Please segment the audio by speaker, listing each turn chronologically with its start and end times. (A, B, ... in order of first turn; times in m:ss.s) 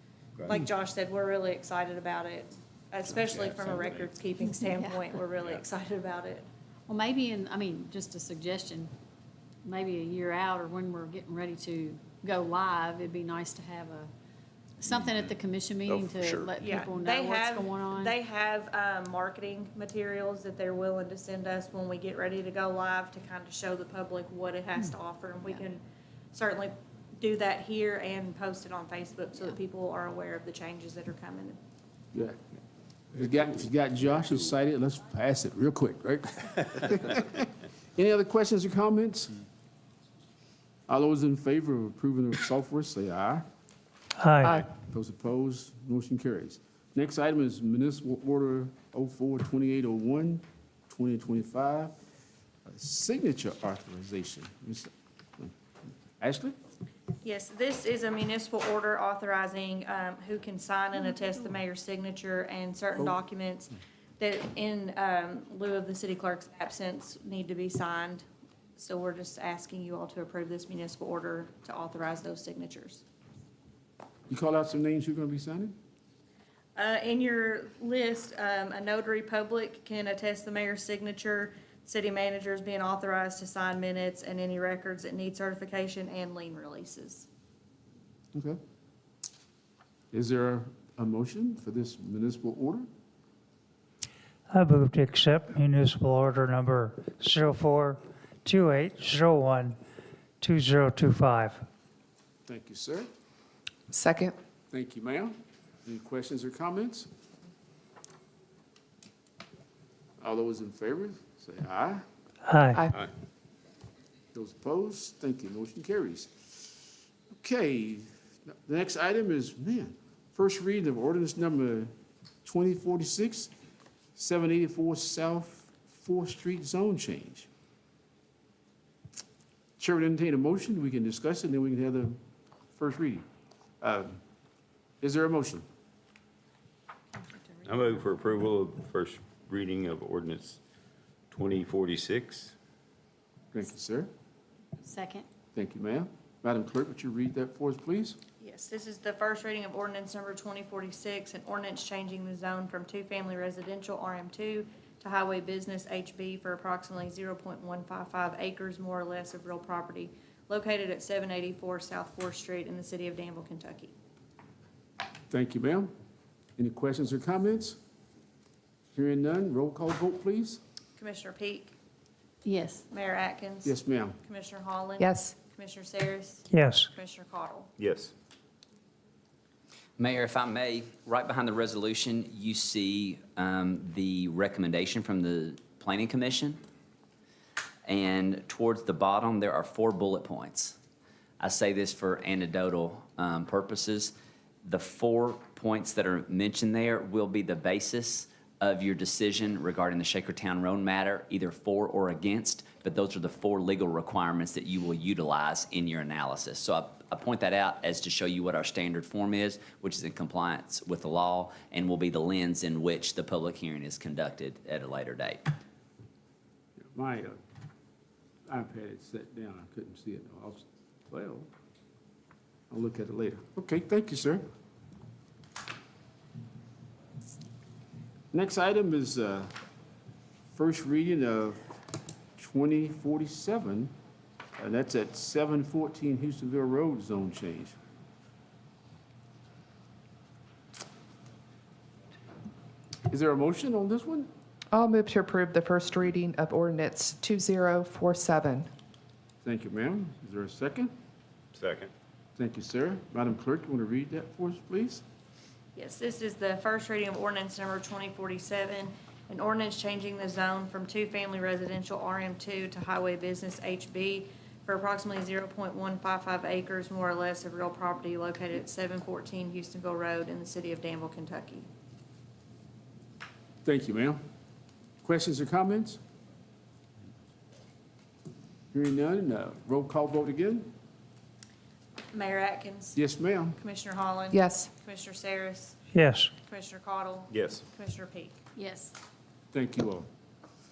0:00.5-0:06.4 A
0:03.2-0:04.1 B
0:04.4-0:05.1 C
0:06.9-0:08.9 C
0:09.6-0:14.1 C
0:14.8-0:18.2 C
0:15.9-0:16.5 B
0:16.6-0:25.8 A
0:26.3-0:31.6 A
0:33.1-0:39.4 D
0:40.9-0:43.4 D
0:44.2-0:44.6 E
0:44.7-0:51.9 D
0:52.7-0:55.5 D
0:56.2-0:56.5 D
0:57.2-1:08.2 A
1:08.8-1:13.0 A
1:14.3-1:15.8 D
1:16.8-1:27.3 A
1:28.3-1:28.6 D
1:30.1-1:32.9 D
1:34.5-1:39.8 E
1:40.4-1:41.6 E
1:42.5-1:43.1 D
1:43.9-1:44.3 F
1:44.7-1:47.1 D
1:50.2-1:52.0 D
1:52.4-1:52.8 E
1:54.3-2:01.9 D
2:02.4-2:03.5 D
2:04.2-2:07.5 D
2:09.8-2:12.2 D
2:12.7-2:13.2 D
2:13.8-2:14.2 D
2:15.0-2:15.6 D
2:17.6-2:20.6 B
2:21.3-2:22.5 B
2:23.5-2:24.1 D
2:24.8-2:25.3 C
2:25.5-2:28.2 D
2:28.4-2:43.9 A
2:45.3-2:45.9 D
2:46.6-2:47.8 D
2:48.9-2:50.6 D
2:51.0-2:51.7 A
2:52.4-2:52.8 C
2:52.9-2:57.7 A
2:53.6-2:54.2 D
2:55.0-2:55.3 F
2:56.5-2:56.9 E
2:57.8-2:58.1 B
3:00.0-3:06.6 G
3:07.8-3:10.8 G
3:11.4-3:14.1 G
3:14.6-3:35.5 G
3:36.8-3:37.4 D
3:38.5-3:41.5 D
3:42.7-3:44.4 D
3:48.3-3:49.5 D
3:50.5-3:51.6 D
3:52.4-3:53.9 D
3:54.6-3:57.7 D
4:03.1-4:04.3 D
4:04.7-4:08.7 F
4:09.4-4:10.9 D
4:11.5-4:11.9 B
4:12.4-4:15.0 D
4:15.7-4:31.7 A
4:33.6-4:34.2 D
4:35.0-4:36.0 D
4:38.7-4:40.7 D
4:42.1-4:45.8 A
4:43.0-4:43.6 D
4:44.3-4:44.7 F
4:45.9-4:46.3 E
4:46.4-4:48.4 A
4:47.3-4:47.6 B
4:48.5-4:49.0 C
4:49.5-4:50.1 D